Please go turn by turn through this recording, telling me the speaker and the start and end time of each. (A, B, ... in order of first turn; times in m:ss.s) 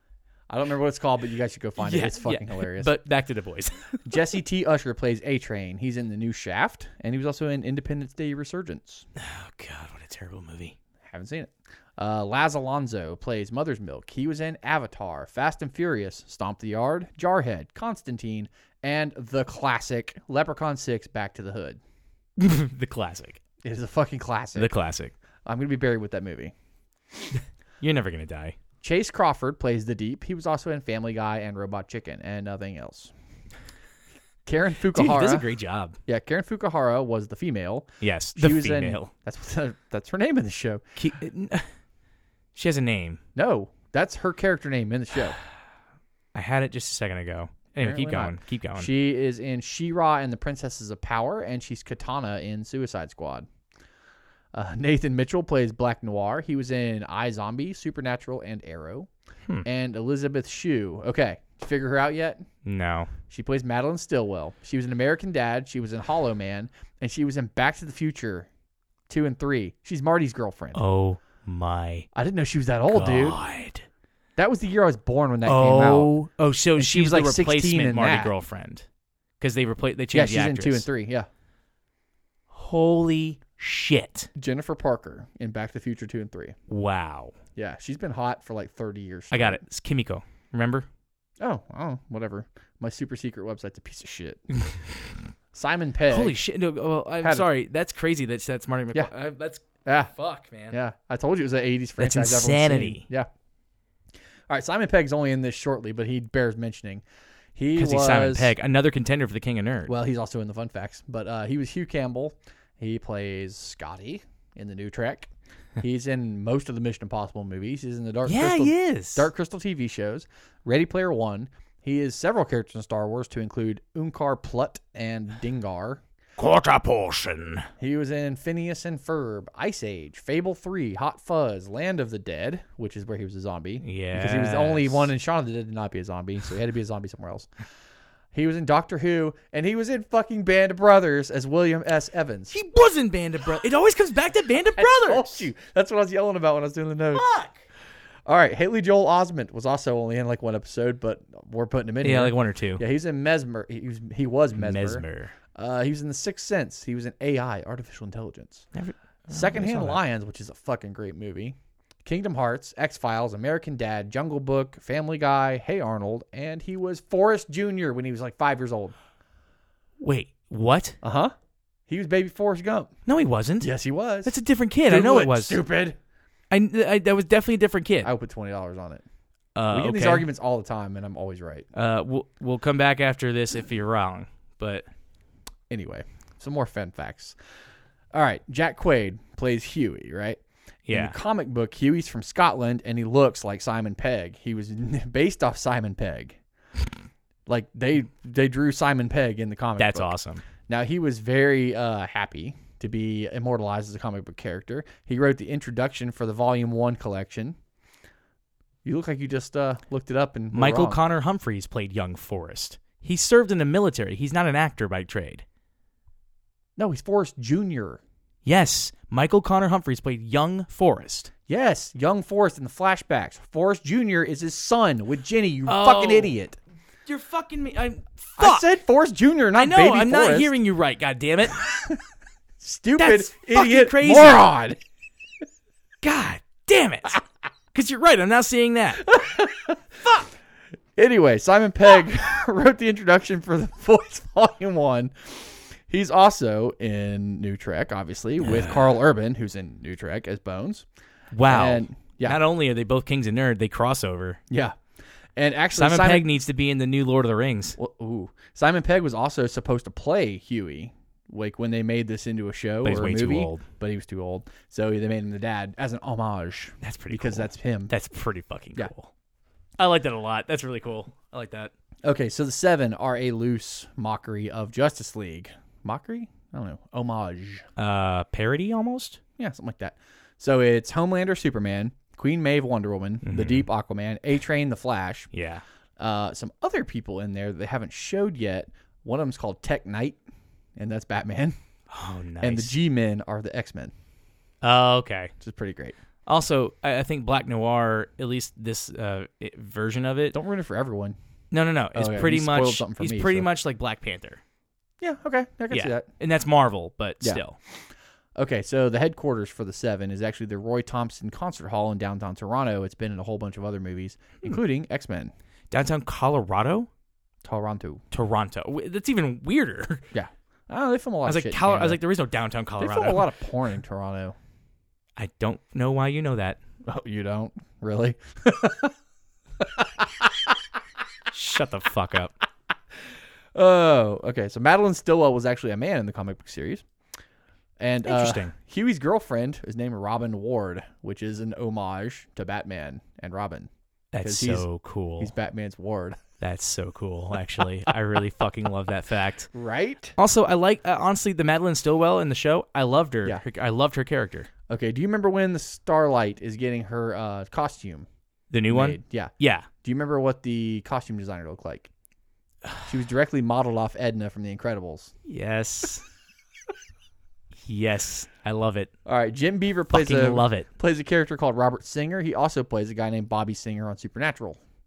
0:00.5-0:02.9 A
0:01.8-0:04.0 B
0:04.0-0:09.1 A
0:09.2-0:10.8 B
0:11.0-0:21.8 A
0:22.4-0:23.4 B
0:23.6-0:24.7 A
0:24.6-0:25.1 B
0:25.4-0:26.5 A
0:27.8-0:28.6 B
0:28.8-0:33.1 A
0:34.5-0:35.5 A
0:34.9-0:36.0 B
0:36.1-0:40.8 A
0:38.0-0:39.1 B
0:41.0-0:41.7 B
0:42.6-0:43.2 B
0:43.4-0:45.4 A
0:46.4-0:48.9 B
0:47.8-0:53.5 A
0:54.5-0:59.1 A
0:59.6-1:02.4 A
1:02.6-1:03.1 B
1:03.3-1:08.5 A
1:09.1-1:10.8 A
1:10.7-1:12.1 B
1:12.1-1:13.4 A
1:12.9-1:13.9 B
1:14.4-1:16.1 A
1:15.4-1:18.9 B
1:16.8-1:18.3 A
1:19.4-1:20.9 B
1:20.1-1:21.3 A
1:22.5-1:24.3 B
1:24.4-1:26.6 A
1:26.7-1:27.4 B
1:27.6-1:29.6 A
1:29.3-1:30.9 B
1:31.4-1:34.4 A
1:35.5-1:36.4 A
1:36.1-1:40.8 B
1:37.2-1:37.5 A
1:39.8-1:40.1 A
1:40.7-1:43.3 A
1:42.0-1:43.1 B
1:44.5-1:47.0 A
1:47.6-1:48.5 A
1:47.8-1:49.9 B
1:49.9-2:06.0 A
1:58.3-1:59.3 B
2:06.4-2:07.7 B
2:07.8-2:17.5 A
2:13.8-2:15.1 B
2:18.3-2:22.5 A
2:22.5-2:25.5 B
2:24.8-2:27.2 A
2:27.1-2:27.6 B
2:28.3-2:38.7 A
2:32.0-2:32.8 B
2:34.6-2:35.3 B
2:38.8-2:40.0 B
2:39.3-2:48.9 A
2:50.0-2:51.0 B
2:51.0-2:51.4 A
2:51.9-2:52.9 A
2:53.1-2:53.7 B
2:53.6-2:54.3 A
2:54.2-2:55.6 B
2:54.9-2:56.0 A
2:56.5-2:58.1 B
2:58.0-2:59.0 A
2:59.6-3:00.3 B
2:59.7-3:01.7 A
3:01.7-3:04.8 B
3:05.7-3:07.4 A
3:08.1-3:10.4 A
3:10.9-3:11.2 B
3:10.9-3:16.4 A
3:17.5-3:20.2 A
3:19.8-3:20.4 B
3:20.7-3:27.6 A
3:28.8-3:31.0 A
3:30.5-3:35.4 B
3:36.8-3:38.0 A
3:38.4-3:41.3 B
3:41.5-3:46.6 A
3:45.7-3:46.4 B
3:47.1-3:48.6 B
3:48.4-3:50.5 A
3:49.6-3:51.6 B
3:51.6-3:52.0 A
3:52.6-3:54.8 A
3:53.0-3:54.4 B
3:56.0-3:57.2 B
3:57.7-3:59.1 B
3:59.0-4:00.2 A
4:01.0-4:10.9 A
4:08.4-4:08.8 B
4:11.3-4:14.4 B
4:11.4-4:12.4 A
4:14.5-4:14.8 A
4:15.4-4:16.3 A
4:15.7-4:17.8 B
4:17.8-4:27.9 A
4:22.8-4:23.6 B
4:26.8-4:29.1 B
4:29.8-4:31.7 B
4:32.0-4:37.7 A
4:37.8-4:39.2 B
4:39.4-4:45.3 A
4:43.2-4:43.6 B
4:45.3-4:45.6 B
4:46.0-4:50.2 A
4:50.8-4:51.6 A
4:51.9-4:52.7 B
4:52.4-4:53.9 A
4:54.6-4:55.3 B
4:55.4-4:56.0 A
4:56.3-5:00.4 B
5:00.3-5:01.2 A
5:01.5-5:04.4 B
5:02.0-5:03.5 A
5:05.0-5:06.1 A
5:05.7-5:07.6 B
5:08.4-5:15.3 A
5:15.7-5:16.9 B
5:17.4-5:18.0 A
5:18.1-5:20.1 B
5:20.1-5:22.0 A
5:21.3-5:23.3 B
5:22.8-5:24.4 A
5:25.2-5:26.6 B
5:26.9-5:28.9 A
5:29.6-5:30.6 A
5:31.3-5:32.3 B
5:33.6-5:36.8 A
5:37.8-5:43.7 A
5:38.1-5:38.5 B
5:44.1-5:45.3 B
5:44.2-5:44.7 A
5:45.2-5:46.2 A
5:46.4-5:49.5 B
5:49.5-5:50.2 A
5:50.2-5:54.5 B
5:54.7-5:58.1 A
5:58.5-5:59.7 B
5:58.7-5:59.3 A
5:59.8-6:01.9 A
6:02.8-6:05.1 A
6:05.3-6:06.0 B
6:07.7-6:08.9 B
6:09.1-6:14.6 A
6:09.9-6:10.7 B